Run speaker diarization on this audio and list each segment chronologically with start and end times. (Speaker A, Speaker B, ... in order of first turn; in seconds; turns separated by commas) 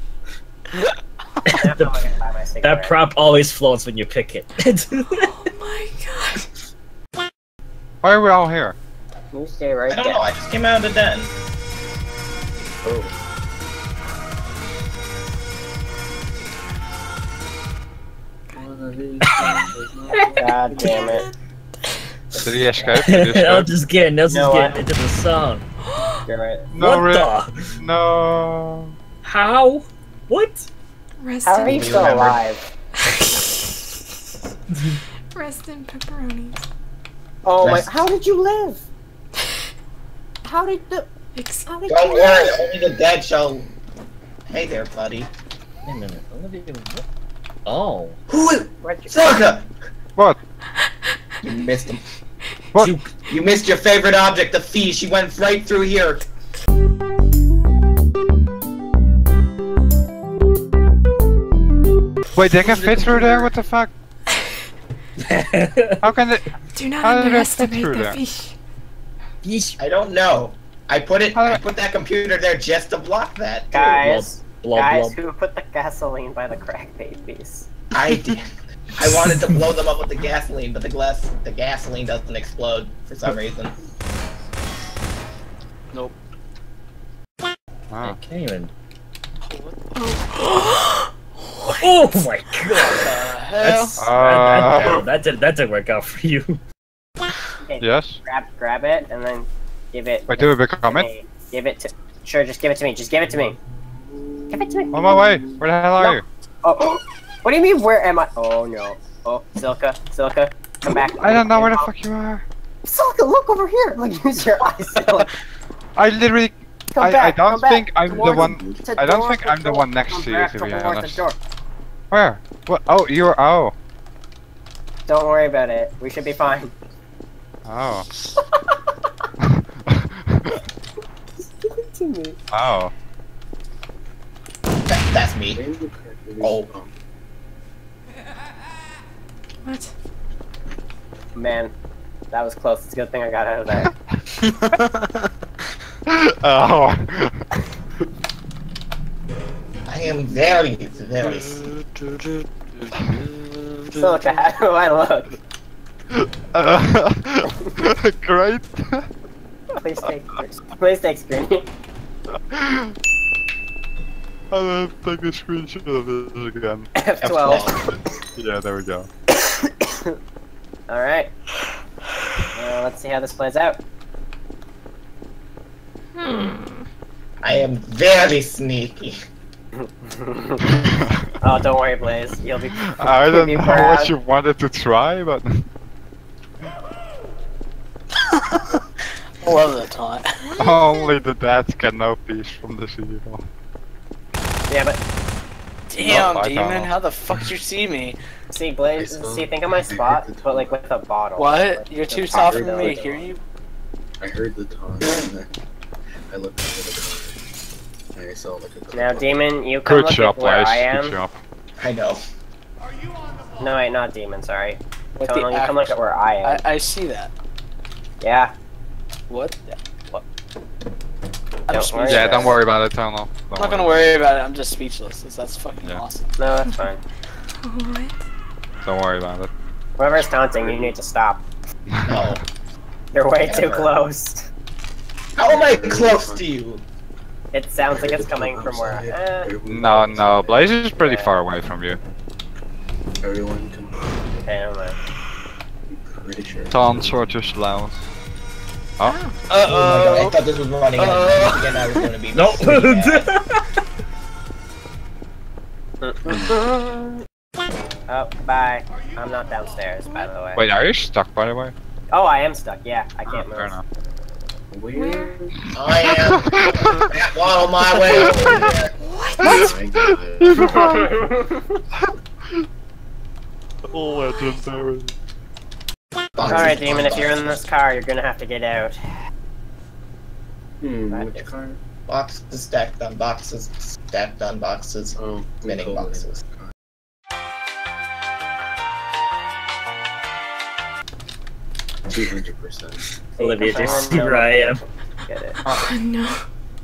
Speaker A: 1.4-2.1, Speaker B: 1.6-3.0, Speaker A: 2.6-5.3, Speaker C: 5.2-6.4, Speaker D: 8.0-8.7, Speaker B: 9.3-10.3, Speaker E: 9.9-11.3, Speaker F: 12.8-13.1, Speaker F: 18.5-21.2, Speaker C: 19.3-21.3, Speaker B: 20.4-21.3, Speaker B: 22.3-23.0, Speaker D: 22.4-23.7, Speaker A: 22.9-25.6, Speaker B: 24.3-24.8, Speaker C: 25.8-26.2, Speaker B: 26.2-26.7, Speaker D: 26.7-28.9, Speaker A: 26.8-27.7, Speaker A: 29.2-30.7, Speaker C: 31.2-32.0, Speaker B: 31.4-32.7, Speaker E: 31.6-32.4, Speaker C: 33.0-34.0, Speaker C: 35.3-36.6, Speaker B: 37.4-38.8, Speaker E: 37.6-38.0, Speaker B: 40.4-41.1, Speaker C: 41.3-41.7, Speaker B: 41.7-42.7, Speaker E: 41.9-43.7, Speaker E: 44.5-45.3, Speaker A: 45.8-47.0, Speaker A: 47.6-48.2, Speaker E: 48.3-49.7, Speaker B: 48.8-49.4, Speaker E: 51.4-52.0, Speaker A: 52.8-53.1, Speaker E: 53.3-56.2, Speaker D: 62.3-63.9, Speaker E: 62.6-63.5, Speaker A: 65.2-66.0, Speaker D: 66.0-66.5, Speaker C: 66.7-68.5, Speaker D: 67.0-68.2, Speaker A: 69.4-69.8, Speaker E: 69.8-74.0, Speaker D: 71.3-71.6, Speaker B: 73.7-77.7, Speaker A: 73.8-75.2, Speaker E: 77.9-83.7, Speaker G: 85.9-86.2, Speaker D: 87.9-88.2, Speaker A: 88.0-88.7, Speaker G: 89.4-89.9, Speaker C: 90.0-92.1, Speaker A: 91.7-96.6, Speaker G: 92.8-94.1, Speaker D: 94.0-95.0, Speaker B: 97.6-103.6, Speaker D: 97.8-98.2, Speaker D: 100.3-101.1, Speaker B: 104.5-105.0, Speaker D: 104.9-106.2, Speaker F: 105.0-105.6, Speaker B: 106.0-111.9, Speaker D: 111.2-112.4, Speaker B: 112.8-115.3, Speaker D: 116.0-121.2, Speaker B: 116.9-121.4, Speaker F: 118.0-118.9, Speaker D: 122.1-123.7, Speaker B: 125.0-126.7, Speaker D: 127.7-128.1, Speaker D: 129.9-130.6, Speaker B: 131.7-132.4, Speaker D: 132.5-132.9, Speaker E: 134.9-135.6, Speaker F: 135.5-136.9, Speaker E: 136.4-136.7, Speaker C: 139.6-139.9, Speaker B: 141.3-141.7, Speaker B: 142.3-143.9, Speaker G: 144.4-145.3, Speaker D: 146.1-147.4, Speaker E: 149.8-151.6, Speaker G: 151.3-154.4, Speaker B: 154.0-155.4, Speaker D: 156.1-159.1, Speaker B: 159.8-161.7, Speaker D: 162.5-162.9, Speaker D: 164.5-166.9, Speaker B: 166.9-167.7, Speaker E: 167.2-167.8, Speaker D: 168.4-169.1, Speaker B: 169.4-170.2, Speaker B: 170.9-171.3, Speaker B: 172.5-173.8, Speaker C: 176.1-176.9, Speaker E: 177.4-179.2, Speaker B: 179.8-180.8, Speaker D: 180.8-181.1, Speaker B: 181.4-184.1, Speaker D: 182.8-185.6, Speaker G: 188.5-188.8, Speaker G: 189.4-190.2, Speaker C: 190.4-191.3, Speaker D: 190.6-193.5, Speaker B: 194.7-195.0, Speaker G: 195.9-198.2, Speaker D: 196.0-196.9, Speaker B: 198.5-203.3, Speaker F: 198.9-200.8, Speaker G: 201.4-203.4, Speaker F: 202.3-203.2, Speaker F: 204.2-205.5, Speaker F: 206.3-207.4, Speaker F: 208.1-209.5, Speaker B: 208.9-211.2, Speaker D: 209.8-211.3, Speaker E: 211.8-212.2, Speaker B: 213.6-216.6, Speaker G: 215.2-217.3, Speaker B: 218.2-218.5, Speaker G: 219.3-220.2, Speaker G: 221.7-222.6, Speaker B: 221.7-222.6, Speaker D: 222.1-224.1, Speaker G: 223.5-226.3, Speaker B: 226.4-227.0, Speaker C: 227.6-228.2, Speaker D: 228.8-229.5, Speaker B: 230.0-231.4, Speaker F: 230.6-230.9, Speaker D: 231.9-232.4, Speaker E: 232.1-232.4, Speaker B: 233.1-234.5, Speaker E: 233.4-233.9, Speaker E: 235.3-236.8, Speaker F: 235.4-236.4, Speaker B: 237.5-239.5, Speaker F: 237.8-240.7, Speaker D: 239.6-242.0, Speaker B: 241.0-241.4, Speaker F: 243.2-244.1, Speaker B: 244.3-245.0, Speaker F: 245.9-247.1, Speaker D: 246.7-248.0, Speaker C: 249.0-249.4, Speaker G: 249.5-250.4, Speaker E: 249.7-253.3, Speaker G: 250.9-252.0, Speaker A: 252.3-253.6, Speaker B: 256.0-257.1, Speaker F: 256.3-256.6, Speaker B: 258.1-260.6, Speaker D: 260.6-261.7, Speaker B: 262.1-263.8, Speaker D: 263.3-263.8, Speaker F: 264.7-265.6, Speaker C: 264.9-265.3, Speaker E: 265.7-268.9, Speaker D: 266.0-267.1, Speaker D: 268.0-268.5, Speaker F: 268.1-268.7, Speaker C: 269.0-269.8, Speaker D: 269.4-271.2, Speaker F: 269.4-270.8, Speaker B: 270.6-271.8, Speaker D: 273.9-275.1, Speaker E: 276.4-277.6, Speaker F: 276.4-277.3, Speaker B: 276.5-279.1, Speaker F: 280.8-281.8, Speaker B: 281.1-281.5, Speaker E: 282.1-286.4, Speaker F: 285.2-286.7, Speaker F: 292.1-293.1, Speaker B: 293.4-295.6, Speaker A: 293.4-294.8, Speaker C: 295.6-296.4, Speaker D: 295.6-295.9